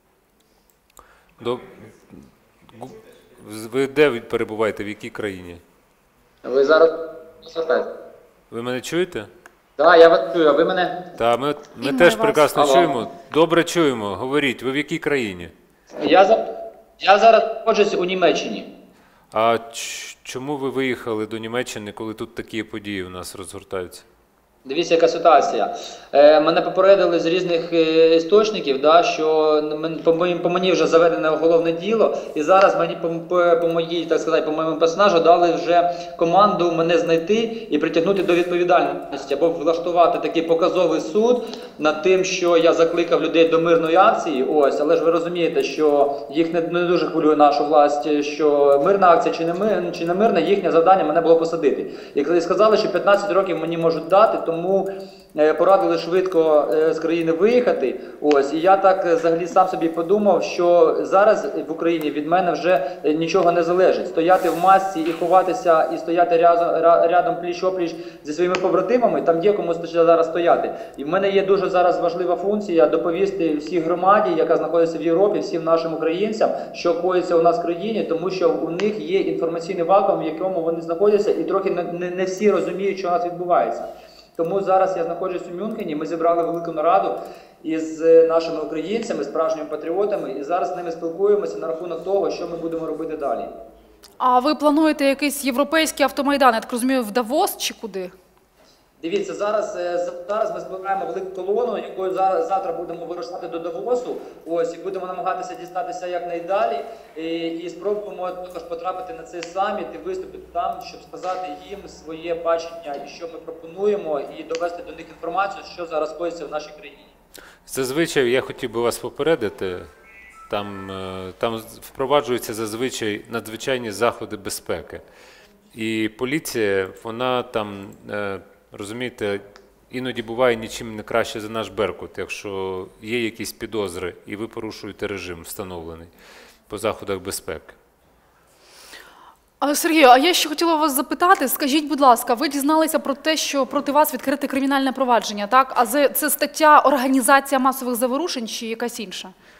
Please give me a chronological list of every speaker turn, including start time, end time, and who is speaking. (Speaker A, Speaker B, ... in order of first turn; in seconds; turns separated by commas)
Speaker A: 1.4-5.6, Speaker B: 6.4-7.9, Speaker A: 8.5-9.3, Speaker B: 9.8-11.0, Speaker A: 11.2-15.5, Speaker C: 11.8-12.4, Speaker B: 12.5-13.0, Speaker B: 16.0-16.4, Speaker B: 17.0-18.7, Speaker A: 19.3-24.0, Speaker B: 24.6-93.5, Speaker C: 94.2-98.1, Speaker B: 99.0-117.1, Speaker A: 117.7-119.9, Speaker A: 120.5-125.0, Speaker A: 125.7-136.1, Speaker A: 136.7-137.8, Speaker C: 139.6-149.3